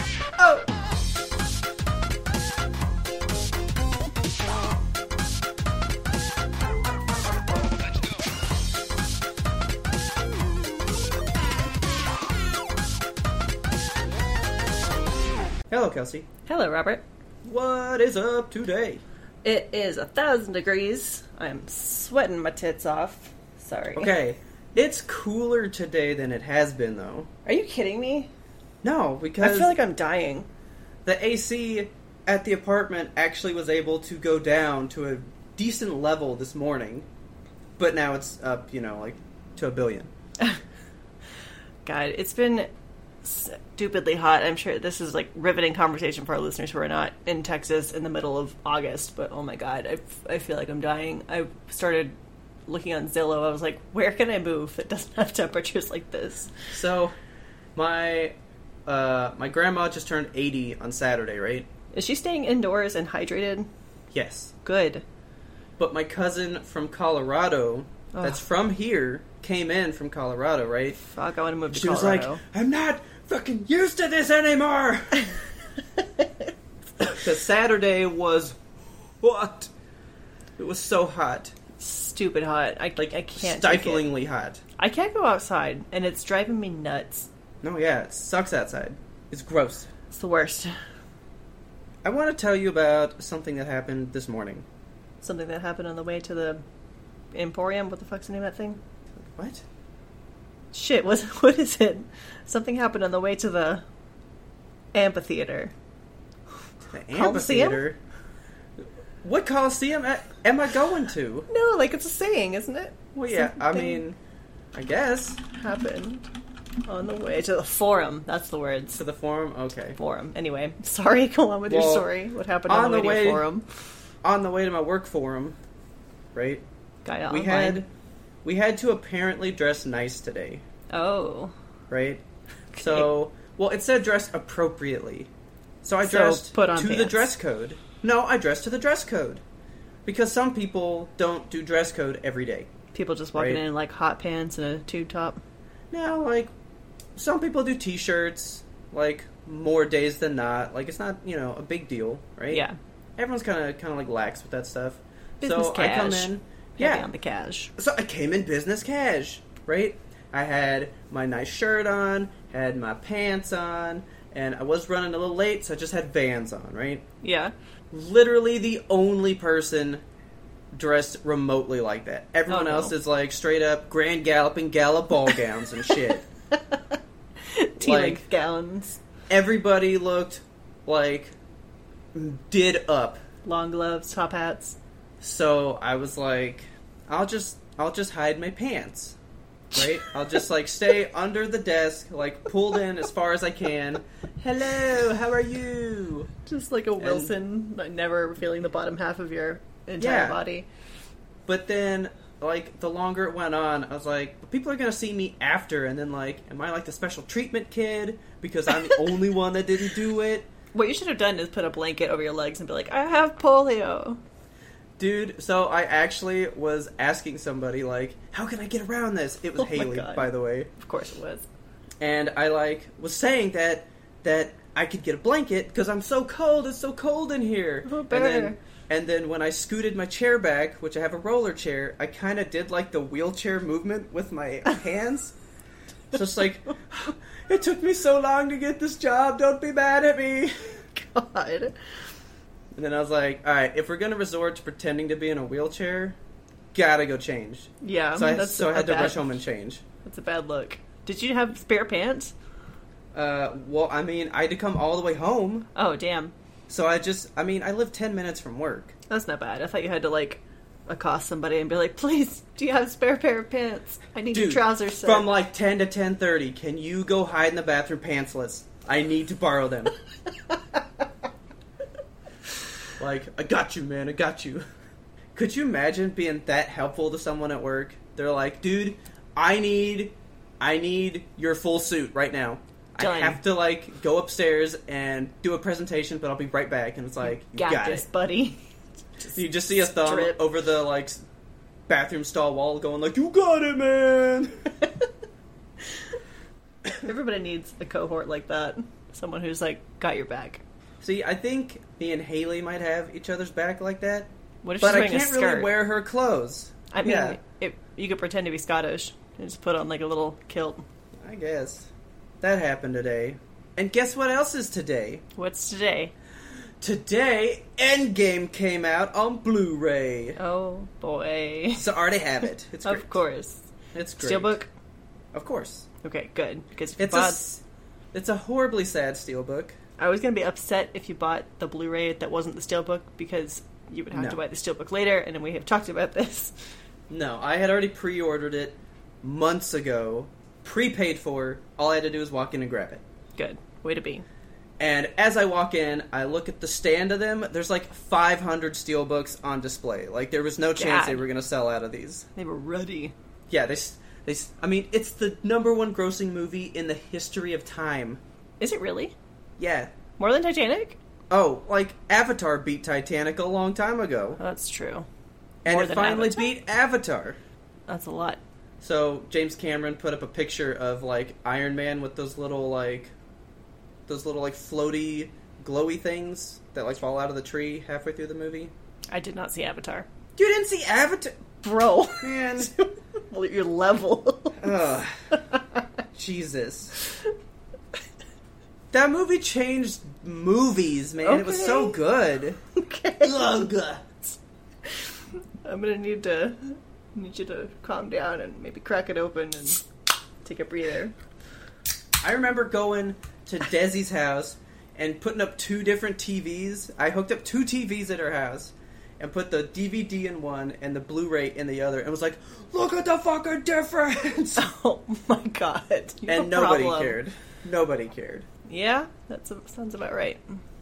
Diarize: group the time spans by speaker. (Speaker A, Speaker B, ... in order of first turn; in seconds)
Speaker A: 15.7-16.3, 17.4-19.0, 23.9-27.3, 28.8-29.8, 31.1-37.1, 37.8-40.1, 56.7-57.1, 57.8-61.7, 64.1-64.5, 65.8-71.0, 71.7-75.2, 77.1-78.6, 79.2-79.7, 80.6-81.5, 83.0-84.6, 87.6-89.9, 92.0-94.6, 99.1-99.6, 106.9-108.0, 109.2-111.5, 113.1-114.2, 114.7-115.4, 118.9-120.0, 121.7-122.1, 122.7-123.5, 124.2-125.6, 126.3-126.6, 127.3-127.9, 128.4-130.6, 131.9-132.2, 132.8-135.3, 135.8-139.4, 140.0-142.7, 143.3-143.6, 145.9-146.5, 147.2-152.6, 153.2-157.1, 157.8-167.0, 167.9-170.0, 170.7-176.2, 177.8-178.2, 179.3-181.3, 182.1-183.2, 185.2-189.2, 189.7-196.3, 197.0-197.3, 200.0-200.4, 201.5-210.5, 215.0-220.7, 222.0-235.3, 236.1-240.5, 242.7-246.2, 246.7-249.8, 253.1-255.7, 256.7-258.9, 264.3-269.9, 273.0-274.6, 275.4-288.1, 289.3-291.2, 291.9-294.6, 301.0-307.4, 311.2-311.9, 312.4-315.2, 316.8-320.4, 321.8-323.2, 323.9-324.6, 325.3-325.9, 327.0-327.6, 328.1-329.8, 334.1-334.4, 337.1-343.0, 344.8-352.2, 353.5-358.2, 359.6-359.9, 361.3-364.4, 365.6-367.4, 368.8-373.1, 374.1-378.7, 380.4-381.4, 382.2-382.7, 384.6-385.1, 386.1-386.9, 388.9-392.6, 393.2-394.1, 402.2-414.7, 416.3-418.5
Speaker B: 16.4-17.0, 19.4-24.1, 27.4-28.3, 29.4-30.5, 41.8-42.7, 43.2-52.1, 52.7-56.6, 61.9-63.7, 64.6-65.0, 68.1-68.4, 71.0-72.4, 81.8-84.1, 84.8-87.3, 90.1-90.7, 95.2-96.6, 97.3-98.8, 100.7-103.8, 104.9-105.7, 107.1-107.8, 111.5-114.0, 115.5-116.3, 116.9-119.0, 120.0-123.7, 127.0-127.8, 130.9-131.5, 132.7-133.1, 136.0-137.3, 142.9-145.4, 152.5-152.8, 155.4-157.7, 167.2-167.5, 172.5-172.9, 176.6-176.9, 177.5-179.0, 183.4-184.8, 196.4-200.7, 210.7-214.2, 219.6-221.5, 227.8-228.6, 241.0-241.8, 247.8-249.2, 250.0-252.3, 255.8-256.3, 259.1-265.3, 283.0-283.4, 287.2-288.6, 289.2-290.4, 297.0-300.6, 304.6-305.7, 306.9-310.8, 315.4-316.1, 320.4-321.9, 322.8-323.7, 324.2-324.7, 326.0-327.4, 330.0-336.5, 343.4-344.2, 350.8-351.2, 352.4-353.1, 358.6-359.1, 360.2-361.0, 364.4-365.1, 365.6-366.5, 367.9-368.4, 379.1-380.1, 381.6-384.6, 391.2-392.0, 392.8-393.4, 394.9-399.9, 400.4-401.1, 414.6-417.2, 418.6-420.4